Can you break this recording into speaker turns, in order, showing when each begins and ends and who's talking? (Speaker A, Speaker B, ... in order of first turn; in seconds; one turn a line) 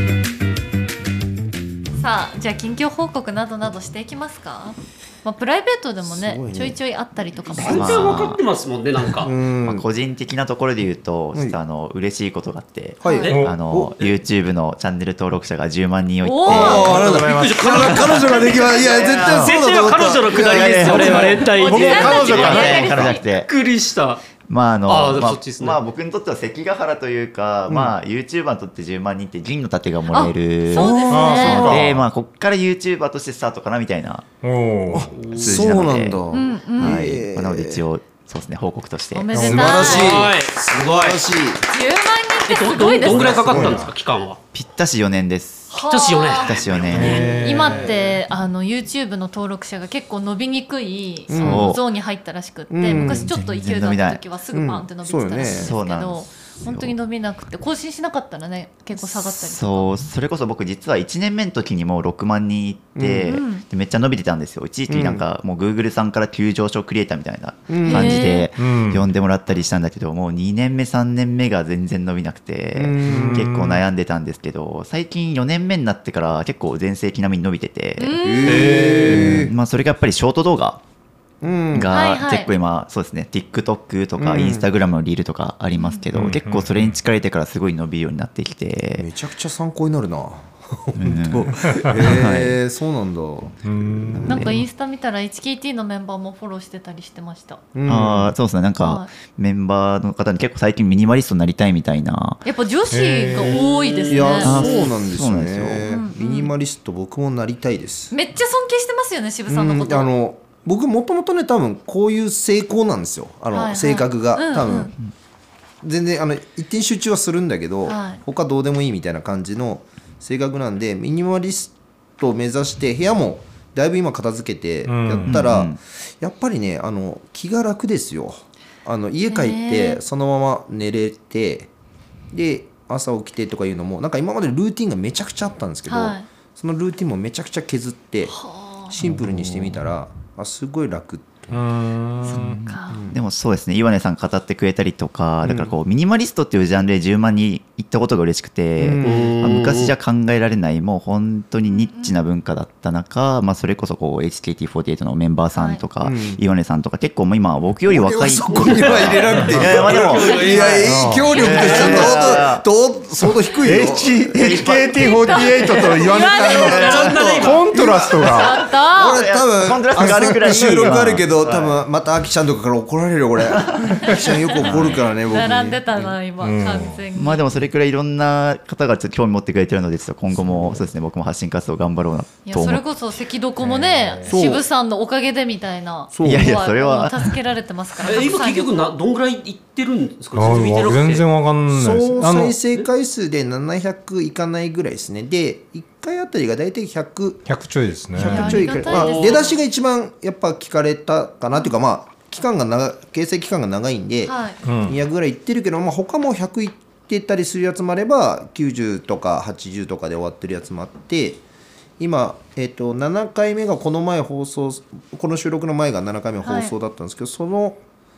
Speaker A: 2.0-8.1
Speaker B: 6.0-6.8
Speaker B: 7.3-8.2
Speaker C: 7.6-9.3
Speaker D: 7.7-8.4
Speaker B: 9.2-9.8
Speaker D: 9.6-17.1
Speaker B: 11.3-11.6
Speaker B: 13.0-14.0
Speaker A: 13.1-13.4
Speaker E: 13.3-13.6
Speaker A: 16.2-16.9
Speaker B: 16.4-21.5
Speaker E: 16.6-17.8
Speaker C: 17.0-24.2
Speaker D: 17.7-23.5
Speaker A: 21.6-23.2
Speaker E: 21.6-22.9
Speaker D: 24.5-34.3
Speaker C: 24.9-25.8
Speaker B: 27.7-27.9
Speaker A: 30.1-31.8
Speaker B: 30.7-32.0
Speaker E: 31.1-31.9
Speaker E: 34.4-35.2
Speaker B: 34.9-37.9
Speaker C: 35.2-35.5
Speaker D: 35.2-36.2
Speaker A: 36.3-37.1
Speaker D: 36.8-39.8
Speaker A: 39.1-40.2
Speaker B: 39.3-41.7
Speaker E: 39.4-40.2
Speaker C: 39.8-41.2
Speaker A: 41.7-43.4
Speaker C: 42.5-44.4
Speaker B: 43.1-43.8
Speaker E: 43.4-43.9
Speaker D: 44.5-45.8
Speaker A: 45.7-46.6
Speaker C: 45.9-47.3
Speaker D: 46.4-47.4
Speaker E: 46.9-48.0
Speaker A: 47.2-59.9
Speaker B: 51.3-51.8
Speaker D: 51.3-51.8
Speaker B: 52.7-53.3
Speaker D: 52.9-54.2
Speaker B: 54.5-55.7
Speaker D: 55.4-56.9
Speaker D: 59.0-80.8
Speaker B: 63.0-63.4
Speaker A: 63.3-63.6
Speaker B: 64.9-65.2
Speaker B: 67.7-68.3
Speaker A: 67.8-68.5
Speaker E: 68.6-69.1
Speaker B: 72.7-73.5
Speaker E: 73.0-73.8
Speaker A: 78.0-78.9
Speaker B: 78.2-79.5
Speaker E: 78.5-79.5
Speaker B: 81.4-81.9
Speaker D: 81.7-89.1
Speaker A: 81.9-82.5
Speaker B: 84.2-84.7
Speaker A: 85.8-86.0
Speaker E: 86.1-87.0
Speaker B: 89.0-94.5
Speaker D: 91.0-92.6
Speaker E: 91.6-91.9
Speaker E: 93.6-94.5
Speaker A: 94.2-97.6
Speaker D: 94.3-94.5
Speaker B: 97.7-98.3
Speaker D: 97.9-102.4
Speaker A: 98.8-99.1
Speaker A: 102.5-104.6
Speaker E: 102.9-103.6
Speaker C: 103.4-104.9
Speaker B: 104.1-108.1
Speaker D: 104.4-105.9
Speaker A: 105.9-106.5
Speaker A: 108.1-110.1
Speaker B: 109.5-115.0
Speaker A: 113.5-114.9
Speaker B: 115.8-131.7
Speaker A: 117.8-118.2
Speaker E: 124.8-125.5
Speaker D: 125.2-125.8
Speaker A: 129.3-130.0
Speaker B: 132.3-141.5
Speaker A: 135.9-136.3
Speaker A: 138.3-138.9
Speaker E: 141.5-142.6
Speaker A: 142.2-143.1
Speaker D: 142.4-162.7
Speaker B: 142.9-143.2
Speaker B: 145.4-145.7
Speaker B: 148.8-149.7
Speaker C: 149.0-149.9
Speaker A: 151.6-152.2
Speaker A: 155.5-155.8
Speaker B: 156.0-156.4
Speaker B: 157.9-176.1
Speaker C: 158.5-162.4
Speaker E: 159.4-159.7
Speaker E: 160.8-162.0
Speaker E: 163.6-168.6
Speaker A: 165.0-167.1
Speaker C: 166.6-167.8
Speaker A: 168.2-169.2
Speaker D: 168.9-171.8
Speaker E: 169.9-171.5
Speaker D: 173.5-174.0
Speaker A: 174.0-174.6
Speaker D: 174.5-175.1
Speaker A: 175.3-177.5
Speaker E: 176.4-177.1
Speaker D: 177.1-182.8
Speaker E: 180.5-180.7
Speaker A: 182.5-188.8
Speaker E: 183.6-184.4
Speaker B: 184.3-184.6
Speaker B: 186.1-186.6
Speaker D: 186.2-187.3
Speaker C: 188.0-191.2
Speaker E: 190.3-192.6
Speaker B: 191.7-197.4
Speaker E: 197.5-198.9
Speaker B: 198.1-204.3
Speaker A: 198.2-199.6
Speaker C: 198.9-199.5
Speaker A: 204.2-204.6
Speaker E: 204.6-205.0
Speaker B: 204.8-211.4
Speaker B: 212.0-217.8
Speaker A: 216.4-216.7